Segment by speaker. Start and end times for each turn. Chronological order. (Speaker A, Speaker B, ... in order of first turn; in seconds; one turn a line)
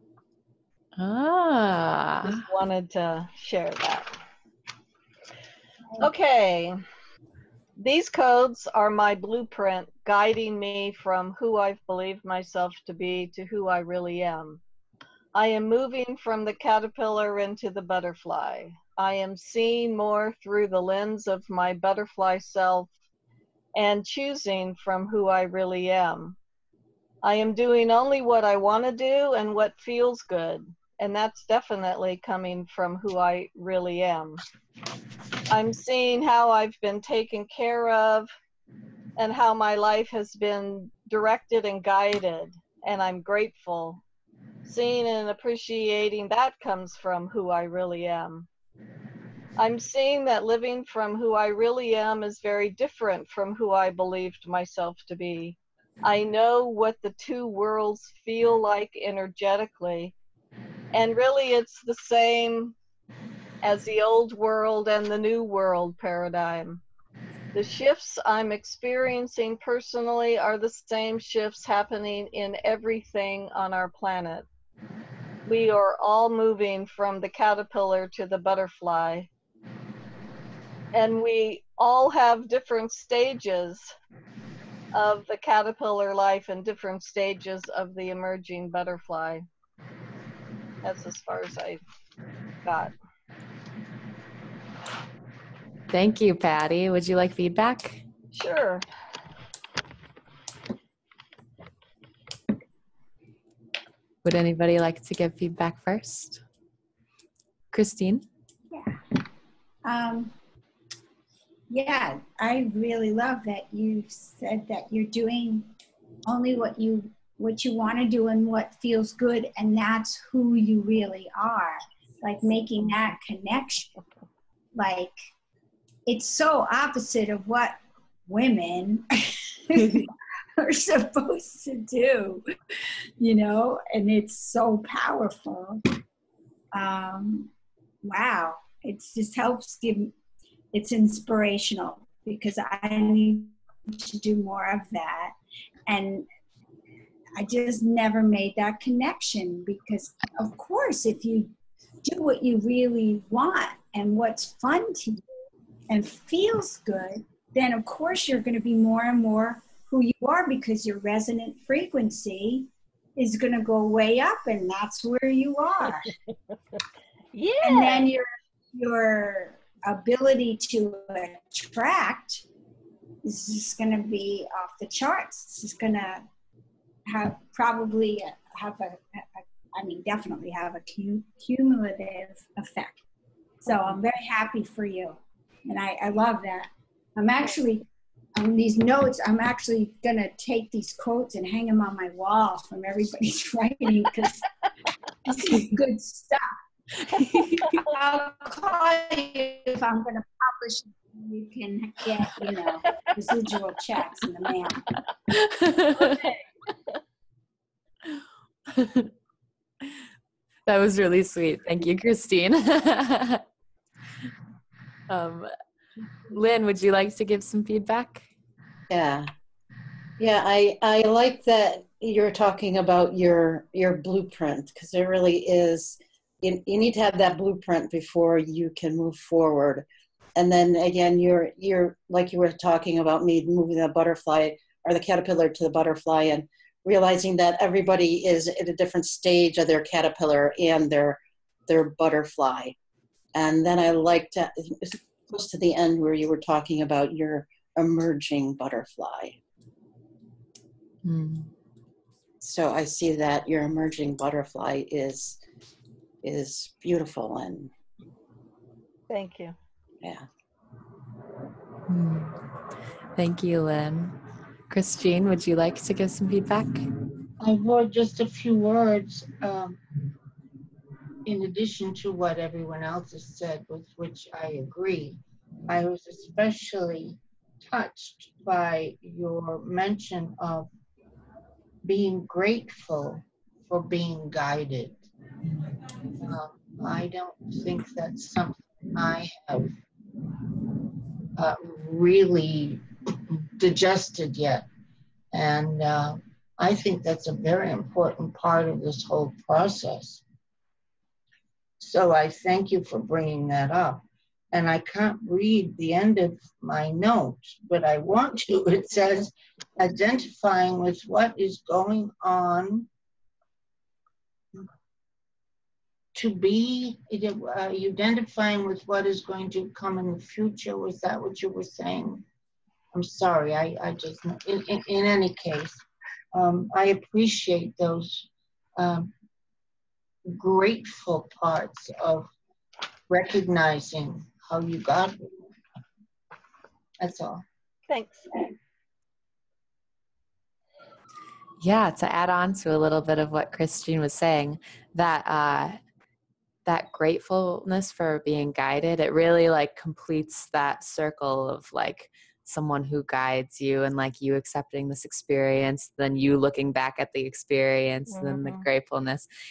Speaker A: 1.0-2.4
Speaker B: 2.2-4.2
Speaker B: 6.0-6.8
Speaker B: 7.8-14.6
Speaker B: 15.3-22.9
Speaker B: 23.7-26.4
Speaker B: 27.2-34.4
Speaker B: 35.5-38.3
Speaker B: 39.2-44.0
Speaker B: 44.6-48.5
Speaker B: 49.6-60.1
Speaker B: 60.9-62.8
Speaker B: 63.6-66.8
Speaker B: 67.5-74.5
Speaker B: 75.4-79.3
Speaker B: 80.9-83.9
Speaker B: 84.9-89.5
Speaker B: 90.8-91.8
Speaker B: 92.6-92.9
Speaker A: 95.9-98.0
Speaker B: 98.3-98.8
Speaker A: 104.2-106.4
Speaker A: 107.7-108.2
Speaker C: 108.7-109.0
Speaker C: 109.8-110.3
Speaker C: 111.7-115.7
Speaker C: 116.2-124.0
Speaker C: 124.7-125.1
Speaker C: 126.0-135.8
Speaker C: 136.7-137.5
Speaker C: 138.0-140.1
Speaker C: 140.7-145.3
Speaker C: 145.9-146.2
Speaker C: 147.3-151.5
Speaker C: 152.0-155.3
Speaker C: 155.9-166.1
Speaker B: 167.3-168.1
Speaker C: 167.6-172.4
Speaker C: 173.2-176.2
Speaker C: 177.1-183.0
Speaker C: 183.6-194.5
Speaker C: 195.2-196.6
Speaker A: 197.0-197.7
Speaker C: 197.6-204.9
Speaker A: 205.3-206.2
Speaker B: 205.9-207.0
Speaker A: 208.7-209.1
Speaker A: 210.7-213.4
Speaker A: 215.1-215.5
Speaker A: 216.3-218.3
Speaker D: 218.9-219.3
Speaker D: 220.2-242.7
Speaker D: 243.3-249.4
Speaker A: 251.0-251.5
Speaker D: 252.4-255.4
Speaker D: 256.2-257.7
Speaker B: 259.1-259.6
Speaker D: 260.0-260.3
Speaker A: 261.9-262.4
Speaker A: 263.1-264.2
Speaker A: 264.7-266.9
Speaker E: 267.4-269.8
Speaker E: 271.2-280.7
Speaker E: 281.8-285.0
Speaker E: 286.2-289.8
Speaker E: 291.4-294.7
Speaker E: 295.3-300.2
Speaker E: 301.8-312.9
Speaker E: 316.1-322.2
Speaker E: 322.9-329.1
Speaker E: 330.3-332.3
Speaker E: 333.1-335.5
Speaker E: 337.0-337.4
Speaker B: 337.9-338.5
Speaker A: 341.6-345.8
Speaker A: 346.6-359.3
Speaker B: 358.1-358.6